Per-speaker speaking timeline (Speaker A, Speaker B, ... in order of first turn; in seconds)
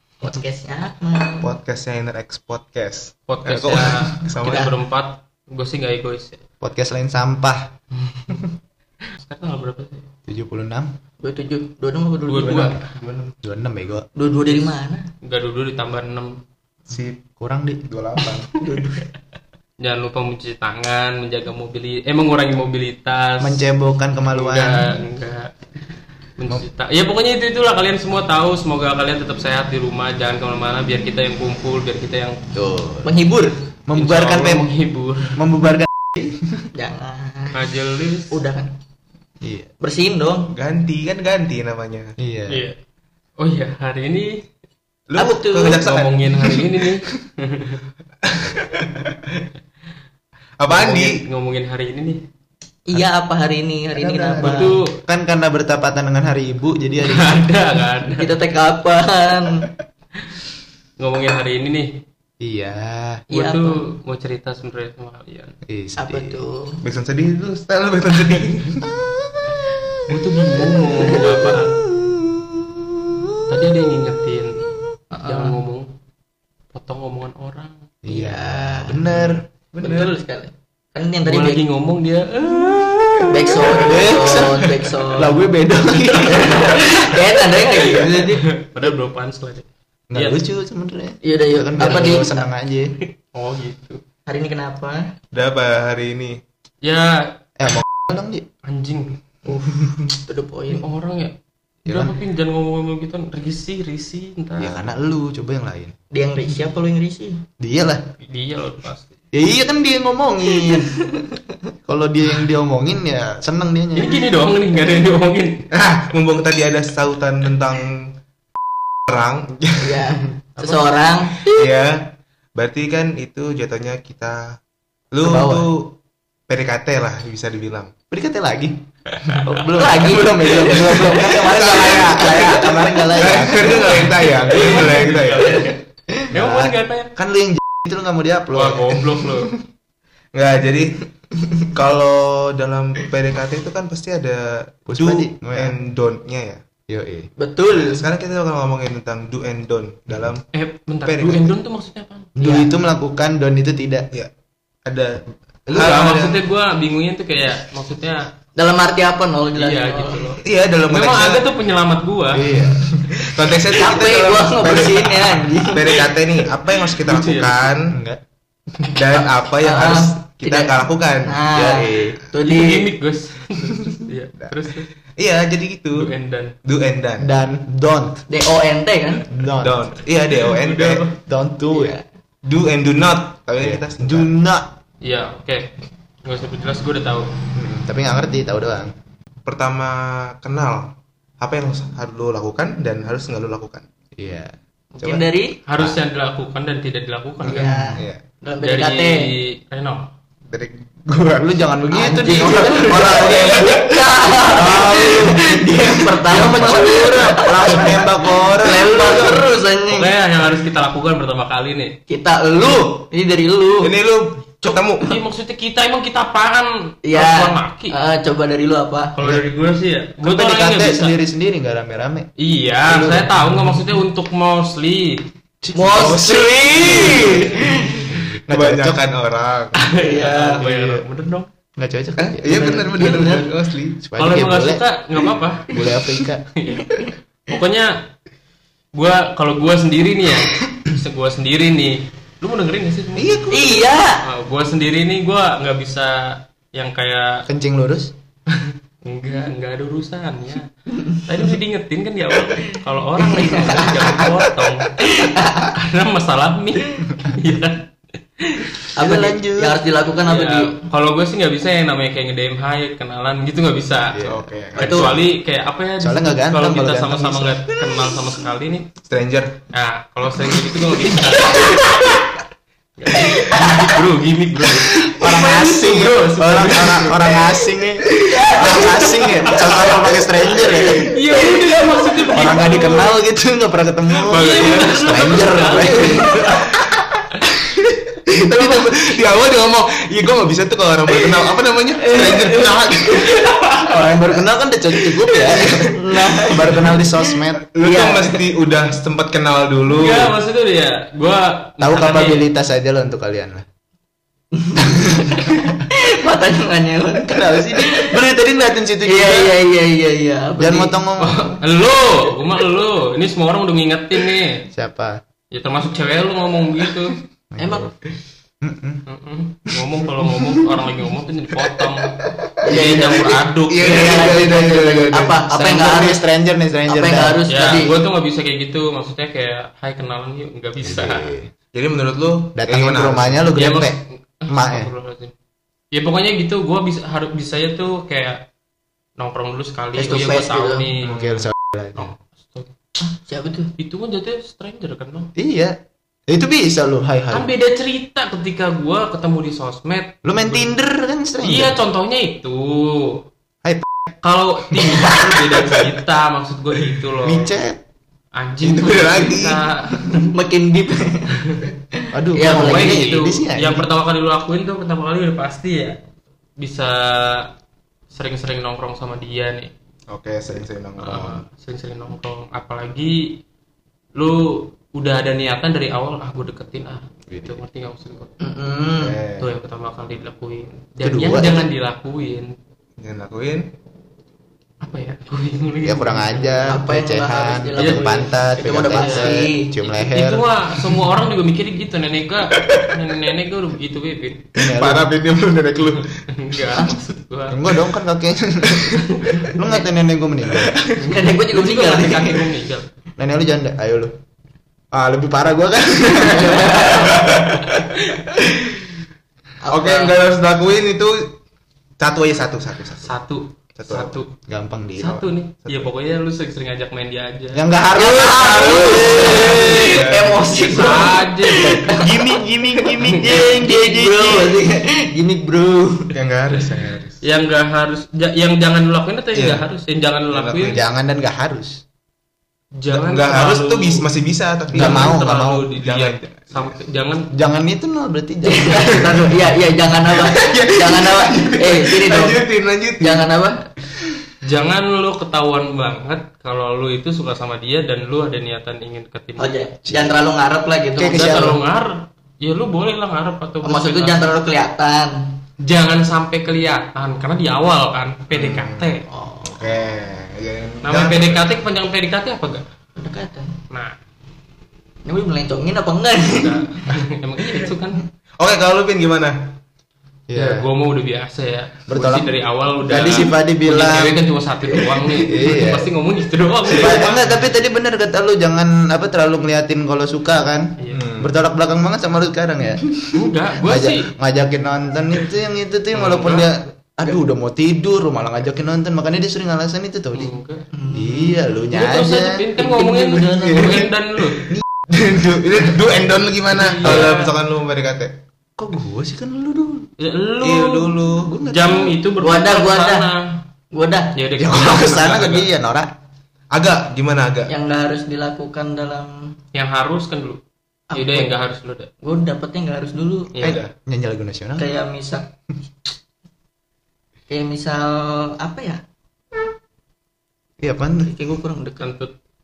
Speaker A: 0.2-1.5, 4.4-4.7, 11.2-12.8, 14.2-15.1, 18.6-19.1, 33.0-33.6, 36.7-37.6, 38.3-38.7, 39.8-40.5, 45.2-45.8, 52.9-54.8, 58.1-59.7, 63.3-63.8, 66.0-66.8, 70.9-71.7, 75.1-75.6, 78.1-79.0, 79.8-81.6, 83.3-85.4, 86.1-88.8, 91.2-92.5, 94.3-95.1, 99.5-100.8, 106.1-107.5, 110.6-111.4, 119.8-121.7, 129.7-134.8, 147.4-148.1, 152.4-152.7, 158.6-160.4, 163.6-166.2, 169.1-172.9, 178.3-179.3, 181.7-182.0, 194.9-195.6, 197.5-199.3, 201.9-210.1, 212.1-213.9, 214.6-215.2, 217.1-219.2, 225.8-228.1, 229.9-230.7, 232.5-233.5, 243.5-244.2, 253.2-254.2, 255.0-255.7, 259.0-260.8, 264.8-265.2, 273.3-273.9, 278.2-279.9, 285.8-286.5, 292.1-293.4, 295.3-297.1, 297.8-298.4, 304.5-308.1, 309.0-311.6, 317.6-317.9, 322.6-326.2, 326.9-328.0, 339.9-340.9, 343.1-343.7, 360.2-363.2, 378.4-379.2, 386.7-389.8, 401.0-402.5, 406.2-407.3, 409.6-410.1, 417.9-422.4, 423.2-426.1, 438.4-442.5, 443.0-443.6, 449.4-451.6, 453.6-455.4, 459.1-459.8, 463.0-463.6, 465.1-466.6, 490.7-491.5, 492.6-493.9, 502.2-503.1, 503.7-504.1, 507.5-509.4, 510.9-511.3, 512.0-513.4, 514.6-515.3, 517.3-518.8, 521.0-521.9
Speaker B: 1.4-4.7, 12.4-13.3, 16.9-17.2, 17.9-18.6, 40.5-42.2, 45.1-46.7, 48.2-49.4, 50.6-51.2, 66.8-68.9, 79.2-80.1, 95.3-96.4, 115.7-118.1, 119.1-120.2, 121.4-124.6, 125.1-126.0, 126.5-127.9, 129.8-135.7, 139.2-139.5, 140.3-141.1, 141.6-146.6, 147.7-150.4, 151.1-151.5, 154.8-156.4, 160.4-161.5, 163.1-168.0, 168.9-171.4, 175.2-176.1, 176.7-177.3, 179.6-181.1, 182.4-184.3, 189.5-193.8, 200.5-201.5, 202.7-203.5, 206.4-206.8, 213.8-215.1, 225.9-230.4, 232.2-234.0, 243.2-244.0, 264.2-265.1, 269.1-269.6, 276.4-277.2, 284.4-285.9, 288.3-293.4, 297.7-300.4, 323.7-325.5, 331.7-333.5, 341.1-341.5, 358.6-360.0, 370.1-371.4, 379.0-379.5, 383.0-383.7, 392.6-392.9, 394.6-396.2, 400.5-401.0, 407.1-409.0, 409.7-411.4, 412.0-413.1, 413.8-414.2, 415.0-415.9, 418.2-421.0, 421.8-422.9, 426.1-427.2, 429.3-429.6, 430.3-430.8, 432.9-435.2, 435.8-436.8, 440.1-443.3, 458.3-461.5, 468.4-469.5, 480.9-481.3, 493.3-493.9, 494.4-498.2, 500.4-501.3, 506.5-507.5, 513.4-513.7
Speaker C: 3.3-6.4, 9.1-10.1, 12.3-12.9, 15.2-16.4, 19.8-23.6, 24.3-25.5, 26.4-32.4, 34.0-35.4, 37.5-38.4, 42.5-42.8, 43.4-44.4, 45.7-47.8, 50.7-52.2, 54.4-55.0, 57.0-58.4, 61.0-62.0, 63.3-65.5, 70.1-71.8, 73.5-74.6, 75.2-75.9, 76.7-77.9, 81.2-83.3, 88.3-90.4, 91.8-92.1, 93.3-94.0, 96.8-97.4, 98.6-99.2, 100.7-101.3, 101.9-104.9, 108.2-109.2, 114.0-115.7, 134.0-137.1, 138.5-139.6, 150.5-152.3, 155.7-158.3, 159.6-162.6, 167.0-167.7, 172.4-174.9, 175.9-176.6, 185.0-185.7, 186.2-187.3, 195.7-197.8, 198.6-200.1, 209.9-212.0, 215.0-218.0, 219.2-221.2, 222.4-225.2, 229.8-231.5, 234.2-238.1, 238.9-243.5, 244.2-247.5, 248.5-255.1, 255.6-258.8, 260.2-264.2, 264.8-268.9, 269.7-272.1, 273.0-277.4, 278.7-279.6, 281.0-283.2, 284.3-286.7, 293.2-293.9, 299.9-302.4, 311.2-314.6, 315.5-317.2, 319.1-324.4, 327.5-331.3, 333.5-335.3, 335.9-338.5, 339.2-341.2, 342.0-342.7, 343.8-345.3, 347.3-350.7, 351.4-353.2, 354.2-357.5, 358.4-360.3, 362.4-366.0, 366.6-367.5, 368.1-369.7, 371.0-373.4, 374.2-378.3, 379.4-382.5, 384.8-386.8, 387.8-394.5, 396.3-397.6, 399.1-399.6, 401.0-402.9, 413.1-414.3, 415.0-417.6, 419.3-420.0, 420.6-421.9, 427.2-430.8, 432.8-434.0, 434.7-437.3, 444.4-449.6, 451.1-454.3, 455.6-459.1, 460.8-462.6, 463.7-463.9, 466.3-468.0, 470.4-477.3, 483.1-484.1, 485.9-486.5, 490.1-490.6, 491.7-494.5, 496.5-497.3, 500.0-503.4, 504.1-505.5, 509.5-510.4, 510.9-511.9, 513.3-513.6, 521.8-522.1
Speaker D: 6.6-7.7, 10.3-10.9, 13.4-14.1, 17.4-17.9, 23.4-24.9, 32.5-33.2, 33.9-34.7, 35.4-36.7, 39.4-39.7, 42.2-42.6, 53.9-57.5, 62.4-63.2, 65.7-66.4, 68.9-69.8, 71.9-73.3, 78.0-79.4, 83.8-87.2, 90.1-93.0, 97.6-98.5, 101.9-102.2, 104.6-106.0, 107.6-108.0, 109.3-110.9, 111.9-114.2, 120.6-120.9, 125.2-125.7, 128.1-134.1, 136.3-139.0, 144.9-145.8, 146.9-147.3, 152.4-154.1, 155.7-156.4, 162.3-162.9, 167.9-168.2, 171.5-172.2, 177.2-178.3, 179.3-179.8, 180.8-182.0, 183.6-184.7, 187.6-188.9, 194.2-194.5, 197.5-198.0, 201.4-209.5, 220.2-222.3, 222.8-223.8, 225.6-229.0, 230.6-231.1, 231.8-233.0, 234.0-234.8, 235.7-236.4, 247.5-248.1, 259.0-259.8, 264.1-264.5, 266.0-267.6, 275.2-281.5, 282.3-286.5, 293.9-297.6, 301.8-303.6, 307.3-309.6, 310.6-311.5, 314.7-315.2, 317.5-318.0, 318.6-319.0, 325.5-327.4, 330.8-331.5, 332.6-334.9, 341.0-342.1, 345.4-345.8, 346.3-347.5, 350.2-351.8, 353.6-353.9, 357.2-357.8, 362.1-363.9, 381.0-381.7, 385.8-390.5, 394.6-395.1, 397.5-400.8, 403.2-404.2, 404.9-407.4, 414.5-415.2, 417.5-419.7, 421.6-424.6, 430.7-431.8, 434.7-435.7, 437.3-439.2, 451.0-451.6, 470.3-470.7, 471.9-472.3, 472.9-474.2, 475.3-475.9, 476.7-490.3, 490.9-492.5, 496.8-497.1, 498.6-499.9, 501.1-502.0, 504.4-505.9, 513.4-514.7, 520.6-521.1